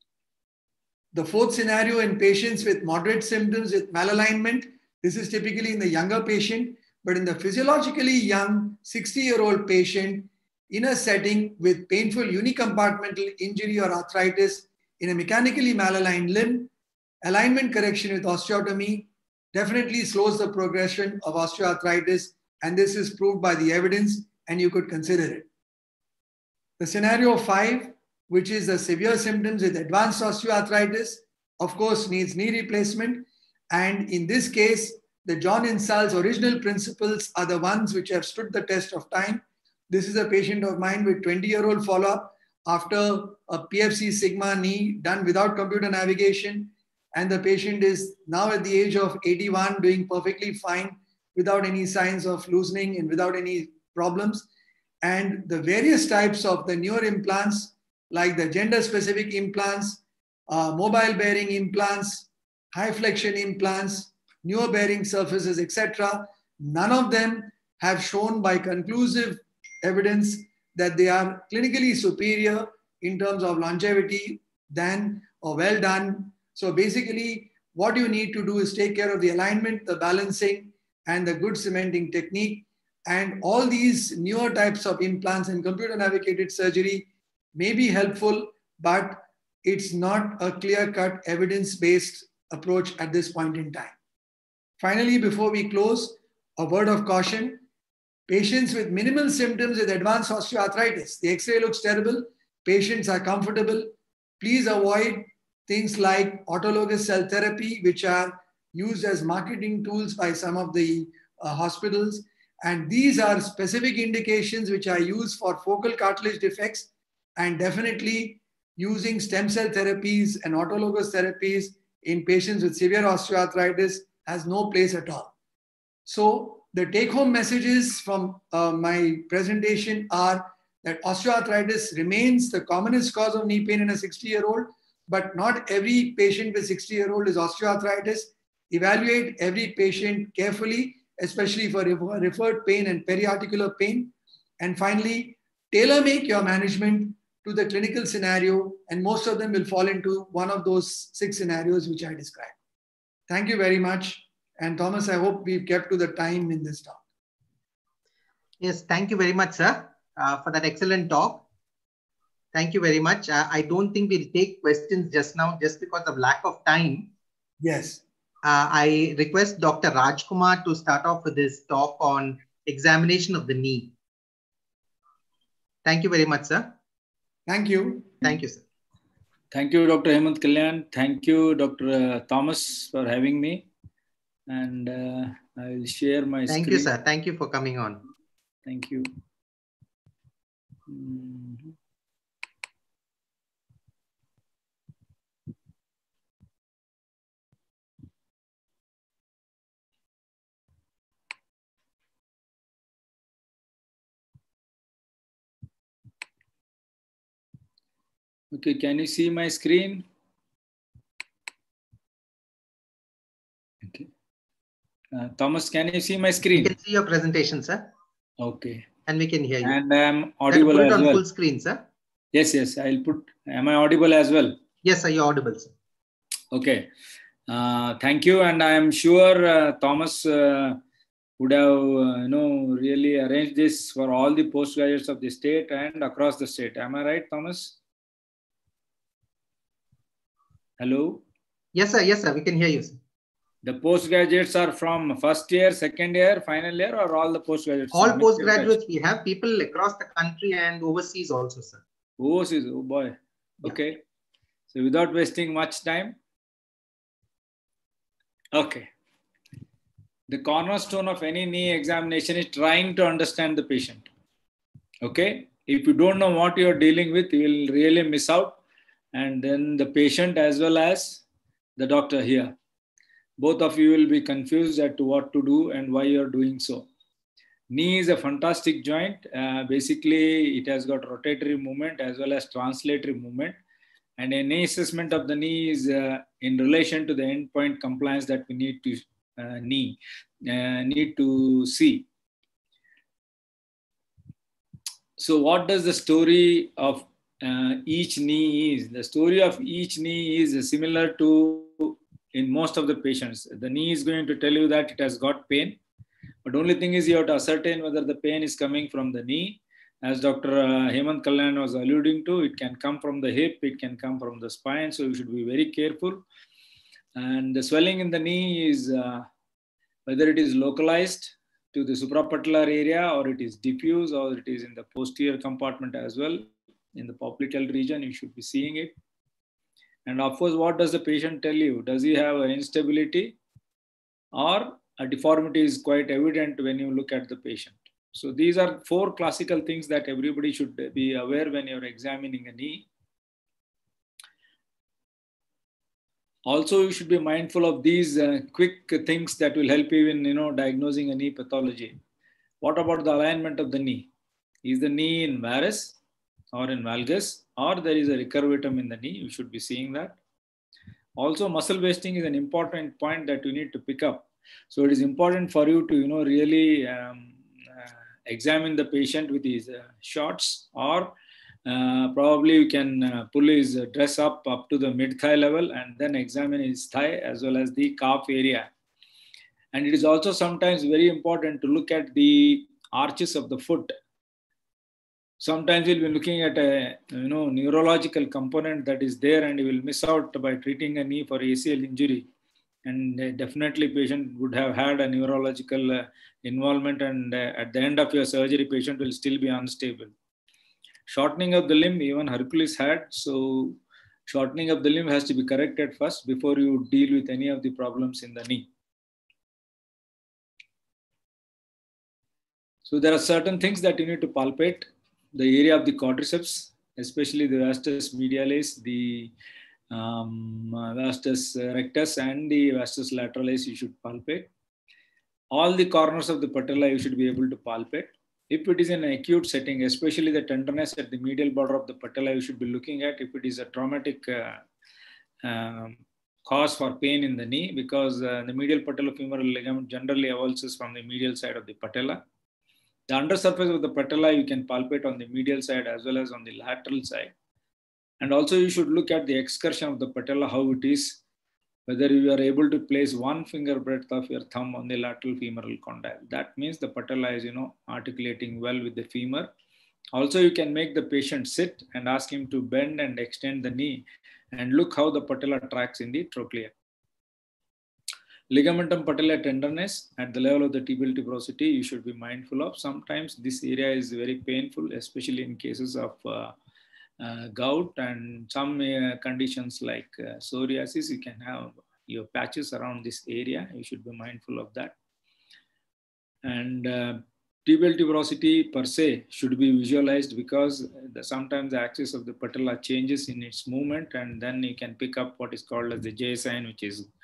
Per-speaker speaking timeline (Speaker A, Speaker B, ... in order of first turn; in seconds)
Speaker A: 1.1-16.7, 17.2-25.5, 26.8-54.5, 55.0-93.9, 94.8-97.6, 98.3-125.3, 126.1-152.6, 153.3-157.0, 167.6-168.0, 177.5-178.2
Speaker B: 158.6-161.4, 162.5-167.1, 168.4-173.9, 175.8-176.7, 178.2-178.6, 186.5-188.1, 216.6-217.8, 219.1-219.8, 220.5-221.8, 224.8-225.7, 241.7-243.0, 247.9-251.8
Speaker C: 179.5-183.7, 184.5-186.9, 188.7-189.1, 190.9-191.7, 208.5-210.1, 215.1-216.7, 218.4-218.8, 219.6-221.2, 222.3-224.6, 226.5-226.9, 227.5-230.8, 231.4-237.8, 240.8-241.2, 243.6-248.7, 252.2-254.0, 254.7-256.1, 258.5-258.9, 260.3-264.1, 265.0-268.6, 269.1-271.2, 271.8-272.6, 273.4-276.9, 277.7-283.6, 284.2-292.1, 295.2-305.8, 306.4-316.2, 317.1-319.3, 320.1-328.9, 330.1-333.4, 334.3-342.9, 346.4-351.9, 352.6-354.1, 354.6-356.0, 356.5-360.2, 361.2-378.7, 379.7-383.9, 385.4-392.3, 392.9-400.1, 401.1-408.7, 412.9-419.3, 419.9-424.5, 425.5-434.6, 435.4-442.2, 443.1-447.3, 448.2-451.2, 451.9-459.5, 460.1-466.7, 468.5-476.5, 477.2-484.9, 486.4-497.1